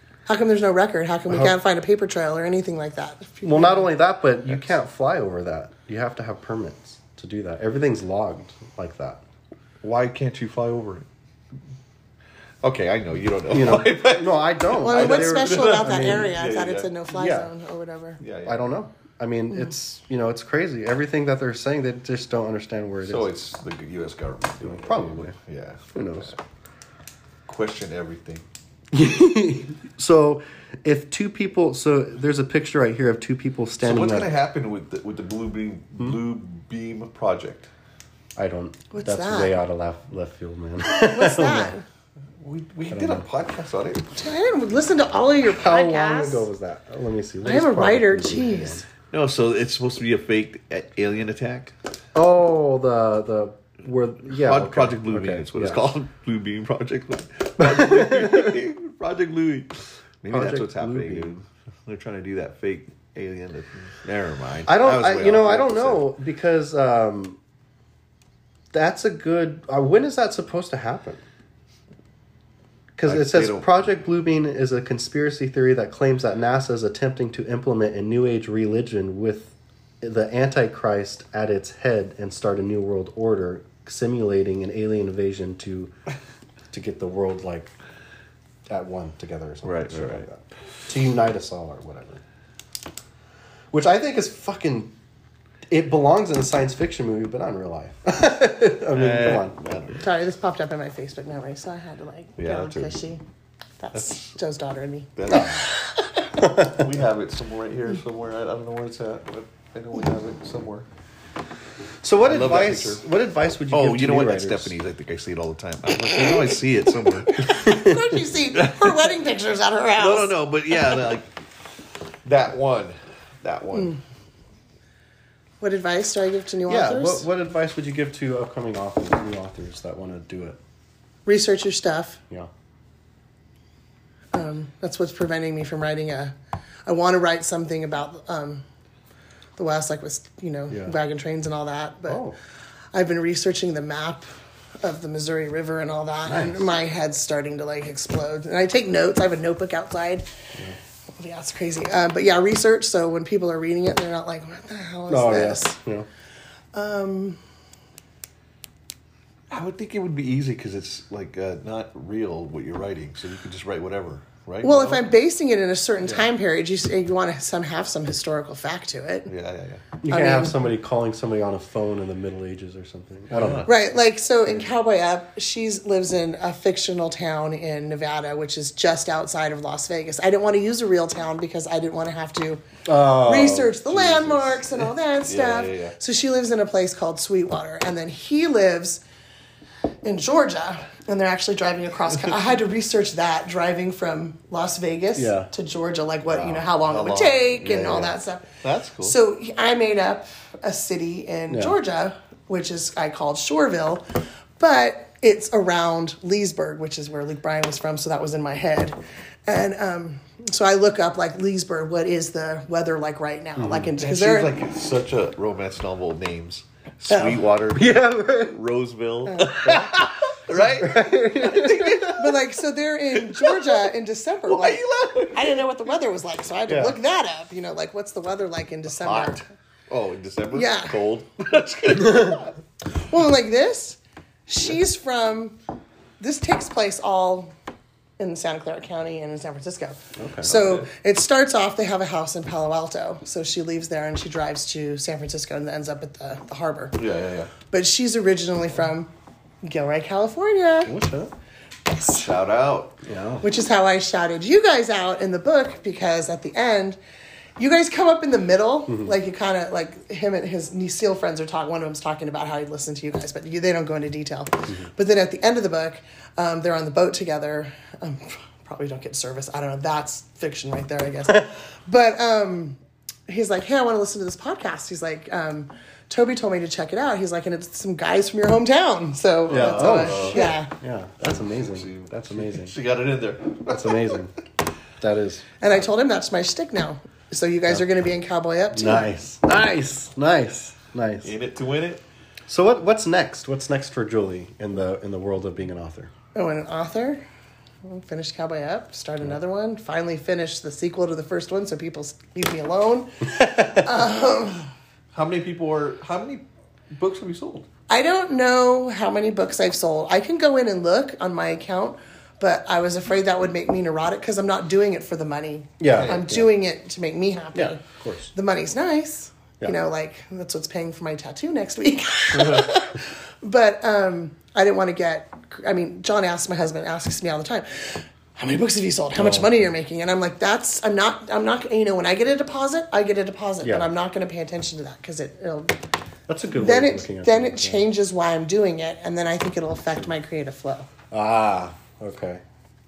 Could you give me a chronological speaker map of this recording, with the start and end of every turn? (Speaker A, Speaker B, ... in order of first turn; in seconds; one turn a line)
Speaker A: 0.3-3.9
Speaker B: 1.3-1.6
Speaker B: 3.4-9.2
Speaker C: 9.8-11.1
Speaker C: 12.6-16.9
Speaker B: 13.5-16.3
Speaker A: 14.8-18.2
Speaker B: 17.1-17.5
Speaker C: 18.2-18.7
Speaker B: 18.4-23.3
Speaker C: 23.0-26.4
Speaker B: 24.6-25.3
Speaker B: 25.9-26.3
Speaker C: 27.5-28.4
Speaker B: 28.9-34.3
Speaker C: 33.8-37.7
Speaker B: 38.4-41.7
Speaker A: 38.9-39.6
Speaker A: 40.9-41.8
Speaker C: 42.4-44.1
Speaker B: 42.9-43.3
Speaker A: 44.2-46.5
Speaker B: 45.5-48.8
Speaker A: 47.4-48.9
Speaker C: 49.1-51.7
Speaker B: 52.1-55.8
Speaker C: 54.3-66.1
Speaker B: 57.6-58.5
Speaker B: 60.3-61.4
Speaker B: 64.7-67.4
Speaker B: 68.7-71.2
Speaker B: 73.0-85.9
Speaker C: 73.0-73.7
Speaker B: 86.7-87.7
Speaker B: 88.7-92.2
Speaker C: 89.6-90.2
Speaker B: 93.7-94.9
Speaker B: 95.7-99.6
Speaker C: 98.9-100.0
Speaker A: 100.0-103.2
Speaker C: 102.4-103.0
Speaker A: 103.8-106.2
Speaker C: 103.9-104.4
Speaker C: 105.2-105.6
Speaker B: 105.3-105.6
Speaker B: 106.4-106.8
Speaker C: 106.6-110.8
Speaker B: 112.0-114.7
Speaker C: 112.2-113.0
Speaker C: 113.7-117.5
Speaker A: 117.3-120.3
Speaker B: 117.5-118.0
Speaker C: 118.5-119.1
Speaker C: 120.0-121.3
Speaker C: 122.2-124.0
Speaker A: 125.6-127.2
Speaker B: 126.7-130.6
Speaker A: 131.2-132.2
Speaker A: 134.3-136.3
Speaker A: 136.8-138.6
Speaker A: 139.6-142.2
Speaker B: 142.1-142.3
Speaker A: 142.9-144.2
Speaker A: 144.8-150.3
Speaker B: 146.2-146.7
Speaker A: 151.2-155.7
Speaker B: 155.1-156.1
Speaker A: 156.7-157.4
Speaker C: 159.5-165.0
Speaker A: 164.6-169.3
Speaker C: 169.3-169.8
Speaker B: 170.0-173.7
Speaker A: 170.1-170.7
Speaker C: 173.3-173.7
Speaker A: 173.6-189.0
Speaker B: 182.8-184.6
Speaker C: 185.2-185.9
Speaker A: 190.0-198.5
Speaker B: 195.2-195.5
Speaker C: 196.3-199.2
Speaker A: 199.0-204.0
Speaker B: 201.5-201.8
Speaker A: 204.6-214.5
Speaker B: 213.6-213.9
Speaker C: 214.0-222.4
Speaker A: 217.1-217.4
Speaker B: 217.7-218.6
Speaker A: 219.2-219.7
Speaker B: 219.6-220.0
Speaker B: 220.5-222.2
Speaker A: 222.2-224.8
Speaker C: 223.1-223.9
Speaker C: 224.5-225.7
Speaker A: 225.3-229.4
Speaker B: 226.7-227.0
Speaker C: 228.9-232.5
Speaker A: 230.5-231.0
Speaker A: 232.9-235.6
Speaker A: 236.2-237.5
Speaker A: 238.2-246.9
Speaker B: 240.2-240.5
Speaker C: 240.4-240.9
Speaker C: 246.9-247.5
Speaker A: 247.7-249.1
Speaker A: 249.6-251.0
Speaker B: 250.8-251.3
Speaker A: 251.8-252.3
Speaker C: 252.1-252.9
Speaker B: 253.0-253.4
Speaker A: 253.4-257.0
Speaker A: 257.6-280.7
Speaker B: 258.9-259.1
Speaker C: 279.5-280.5
Speaker B: 279.5-282.7
Speaker C: 281.4-284.2
Speaker B: 283.7-284.4
Speaker B: 285.0-285.5
Speaker A: 285.6-289.1
Speaker B: 288.7-291.3
Speaker C: 291.2-292.0
Speaker B: 292.5-296.1
Speaker A: 296.3-297.2
Speaker A: 297.8-304.7
Speaker B: 303.4-303.8
Speaker C: 305.1-307.7
Speaker A: 307.9-317.8
Speaker B: 315.8-316.5
Speaker C: 315.9-316.2
Speaker B: 317.5-318.3
Speaker A: 318.3-335.7
Speaker C: 322.4-322.6
Speaker B: 329.1-329.7
Speaker B: 333.6-333.9
Speaker B: 336.3-337.8
Speaker A: 336.6-340.9
Speaker B: 341.1-342.4